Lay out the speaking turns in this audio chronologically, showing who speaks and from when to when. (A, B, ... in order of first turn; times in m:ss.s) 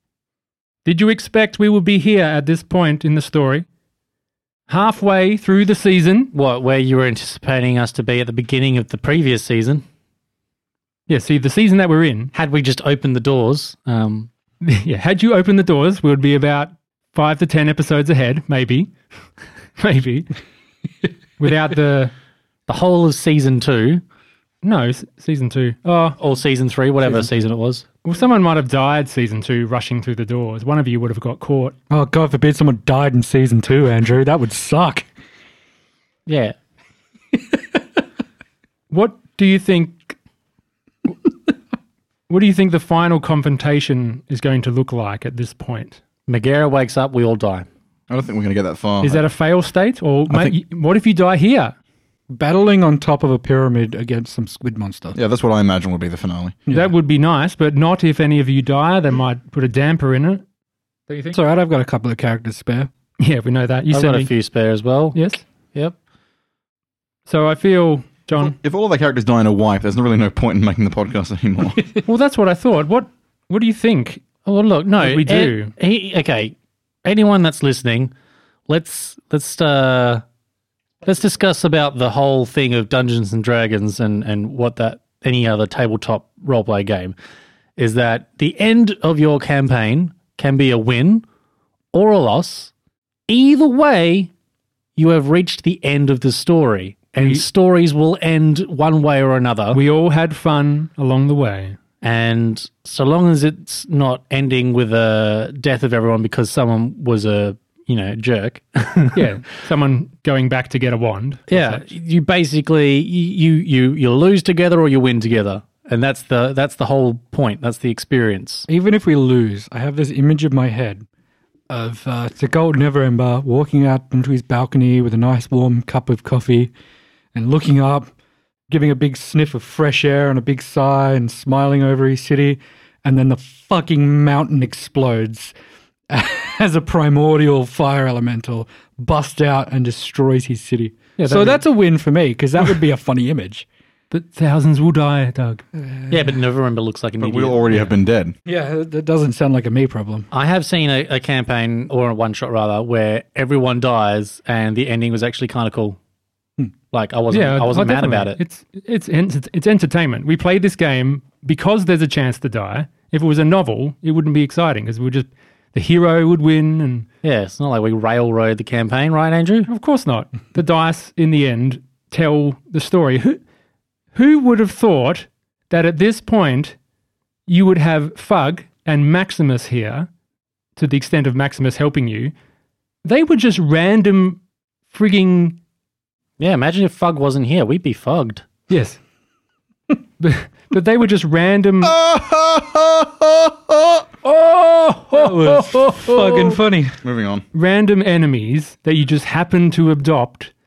0:00.8-0:03.6 A
0:04.7-0:06.3 A
0:06.3-0:09.8 B
0:11.1-0:12.3 A
0:12.3-0:14.3 B
0:14.6-0:18.9 A
0:19.8-0:20.3 A
0:21.4-0:22.1 A
0:22.7-0:24.0 B
0:24.6-0:26.2 A
0:26.2-0:27.9 B
0:28.0-0:31.7 A
0:31.9-0:35.1 C
0:36.3-0:36.6 B
0:38.9-0:40.1 A
0:42.3-0:46.0 A
0:46.3-0:47.7 B
0:48.1-0:49.2 D
0:49.0-0:51.7 A
0:50.3-0:50.6 D
0:52.3-0:55.2 C
0:55.1-0:56.6 D
0:56.7-1:00.4 A
1:01.1-1:01.4 A
1:01.3-1:02.9 C
1:03.2-1:04.3 A
1:03.9-1:05.2 B
1:05.1-1:05.4 A
1:07.2-1:08.5 A
1:08.4-1:11.9 D
1:12.0-1:14.2 A
1:14.4-1:18.1 B
1:15.0-1:15.7 A
1:18.7-1:20.2 B
1:21.0-1:27.1 B
1:27.8-1:31.2 B
1:31.9-1:32.7 B
1:33.3-1:34.3 B
1:35.0-1:39.8 B
1:37.2-1:37.4 A
1:39.7-1:41.8 A
1:42.0-1:49.3 B
1:49.1-1:51.8 A
1:51.5-1:58.7 B
1:58.7-2:01.0 C
2:01.7-2:06.7 C
2:07.3-2:08.1 C
2:08.7-2:15.5 C
2:16.1-2:23.6 C
2:21.2-2:21.6 A
2:24.1-2:25.6 A
2:25.7-2:26.3 C
2:26.1-2:27.9 B
2:27.2-2:28.3 D
2:28.4-2:30.3 C
2:30.3-2:36.0 B
2:36.9-2:38.4 B
2:37.3-2:47.1 A
2:47.2-2:49.7 B
2:49.7-2:53.4 A
2:54.1-2:56.8 A
2:57.5-3:00.1 A
3:00.8-3:02.3 A
3:03.0-3:04.4 A
3:04.9-3:05.6 A
3:06.4-3:08.4 B
3:08.7-3:09.0 A
3:10.2-3:11.9 A
3:11.8-3:14.0 D
3:14.2-3:16.6 A
3:15.1-3:17.0 C
3:17.0-3:17.4 D
3:17.5-3:20.5 A